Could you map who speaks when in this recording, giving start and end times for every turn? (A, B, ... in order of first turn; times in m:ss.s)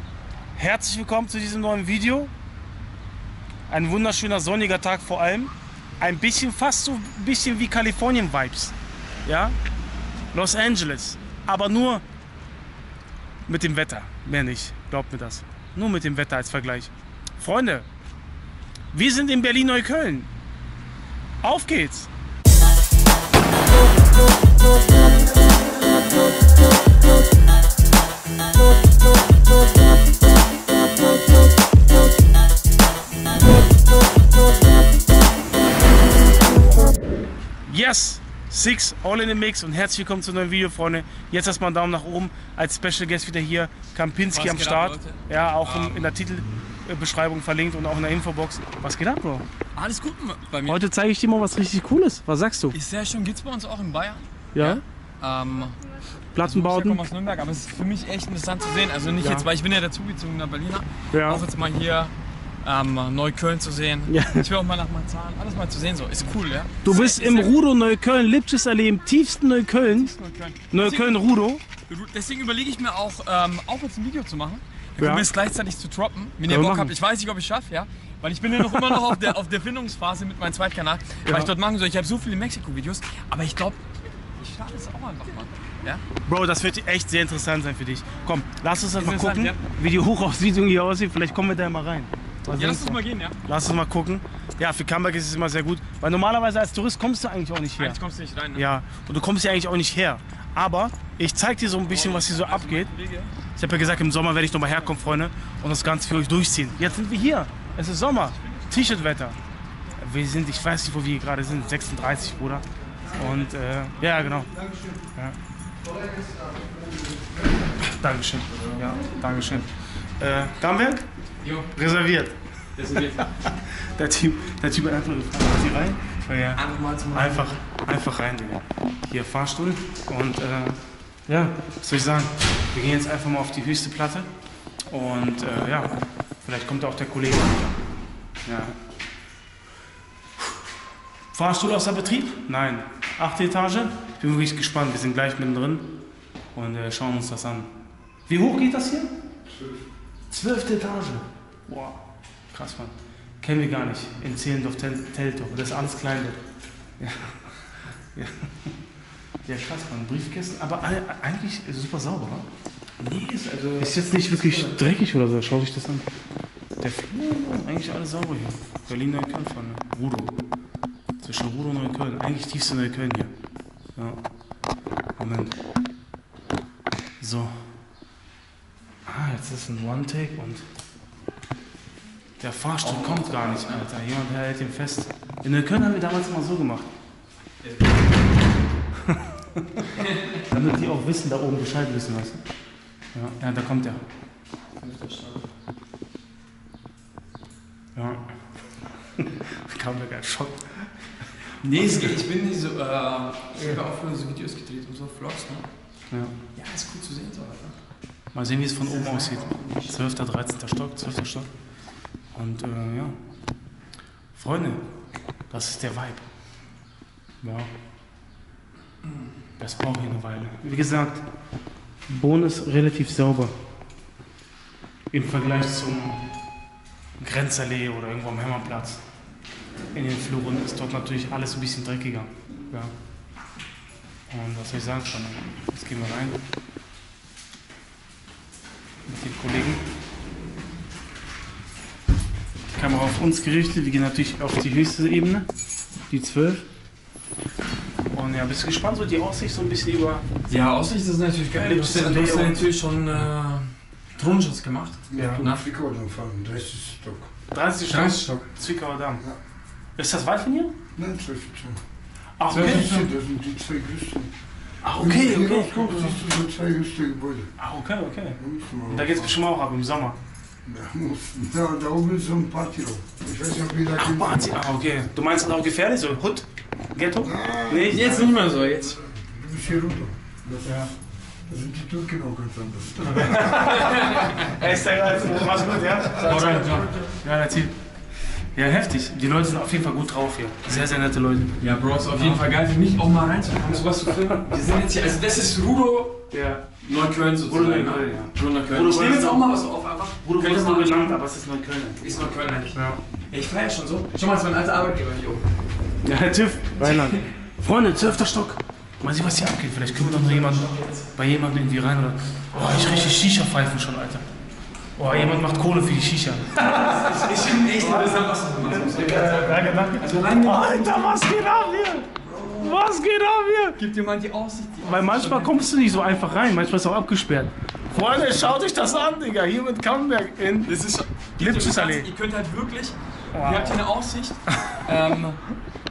0:00.6-0:02.3 A
0:03.7-0:09.6 A
0:10.3-0:12.0 A
0:13.5-0:17.9 A
0:18.9-0:20.3 A
0:21.4-0:22.1 A
0:37.7-0:49.4 A
0:44.3-0:46.1 B
0:49.8-0:50.8 B
0:50.7-0:52.8 A
0:52.7-0:55.8 B
0:54.6-0:54.8 A
0:56.3-0:57.0 A
0:56.4-1:07.6 B
0:59.2-0:59.5 A
1:01.1-1:01.4 A
1:04.1-1:04.5 A
1:06.8-1:10.1 A
1:09.8-1:11.2 B
1:10.7-1:11.6 A
1:11.9-1:23.8 B
1:15.0-1:15.3 A
1:16.4-1:16.9 A
1:18.8-1:19.1 A
1:24.4-1:26.0 B
1:26.2-1:38.0 A
1:29.0-1:29.6 B
1:32.5-1:33.4 B
1:37.8-1:38.7 B
1:38.6-1:42.9 A
1:41.9-1:43.4 B
1:43.6-1:49.4 A
1:48.2-1:48.7 B
1:50.0-1:54.5 A
1:53.2-1:53.5 B
1:54.4-1:55.0 C
1:55.8-1:57.7 C
1:57.8-2:01.1 A
2:01.4-2:01.7 B
2:01.7-2:02.4 A
2:02.8-2:03.3 B
2:02.9-2:14.3 A
2:06.6-2:07.6 B
2:14.9-2:17.8 A
2:18.4-2:18.8 A
2:21.3-2:25.9 A
2:26.6-2:27.7 A
2:28.3-2:29.1 A
2:29.5-2:29.8 C
2:30.3-2:32.0 A
2:32.5-2:36.4 A
2:37.0-2:37.6 A
2:38.1-2:38.7 A
2:39.4-2:42.5 A
2:43.0-2:46.1 A
2:43.4-2:44.8 B
2:46.8-2:50.4 A
2:51.2-2:53.3 A
2:55.2-2:55.6 A
2:57.2-2:57.6 A
2:59.1-3:00.6 A
3:02.4-3:06.9 A
3:02.8-3:03.8 B
3:07.6-3:08.0 B
3:09.0-3:09.8 A
3:09.9-3:10.4 B
3:10.4-3:12.4 A
3:13.1-3:14.0 A
3:14.8-3:15.5 B
3:18.0-3:18.2 A
3:19.2-3:20.9 A
3:21.6-3:25.7 B
3:21.6-3:22.2 A
3:26.6-3:27.8 B
3:28.3-3:31.5 A
3:28.8-3:30.2 B
3:32.3-3:33.2 A
3:34.4-3:34.9 A
3:35.5-3:36.3 A
3:37.4-3:37.7 A
3:39.6-3:41.3 A
3:42.1-3:43.6 A
3:45.1-3:46.2 A
3:47.2-3:49.0 A
3:49.9-3:52.9 A
3:54.3-3:56.4 A
3:59.0-3:59.8 A
4:02.7-4:05.5 A
4:06.1-4:06.6 A
4:08.1-4:10.2 A
4:10.5-4:15.6 B
4:11.5-4:12.7 A
4:15.1-4:17.3 C
4:15.1-4:15.4 A
4:17.5-4:19.2 A
4:17.9-4:18.5 B
4:20.0-4:20.8 A
4:21.0-4:21.8 C
4:22.4-4:23.1 A
4:22.5-4:23.0 B
4:22.5-4:24.3 C
4:24.8-4:26.2 A
4:24.8-4:27.5 C
4:27.6-4:30.2 A
4:28.4-4:29.2 C
4:30.6-4:34.5 C
4:34.0-4:38.4 A
4:37.2-4:37.9 C
4:37.8-4:39.0 B
4:39.1-4:40.9 C
4:41.5-4:43.9 C
4:43.2-4:47.8 A
4:43.6-4:44.6 B
4:46.1-4:47.1 B
4:48.6-4:51.5 A
4:51.6-4:56.2 B
4:56.3-4:56.6 A
4:56.8-5:01.0 B
4:57.5-4:59.5 A
5:00.2-5:02.0 A
5:02.0-5:05.5 B
5:02.7-5:03.0 A
5:06.0-5:14.3 A
5:06.8-5:07.3 B
5:09.9-5:11.1 B
5:12.6-5:13.1 B
5:15.0-5:23.8 A
5:16.6-5:21.4 B
5:22.2-5:22.8 B
5:23.8-5:26.2 B
5:24.8-5:30.8 A
5:27.9-5:29.1 B
5:30.7-5:35.4 B
5:31.4-5:32.1 A
5:33.3-5:33.8 A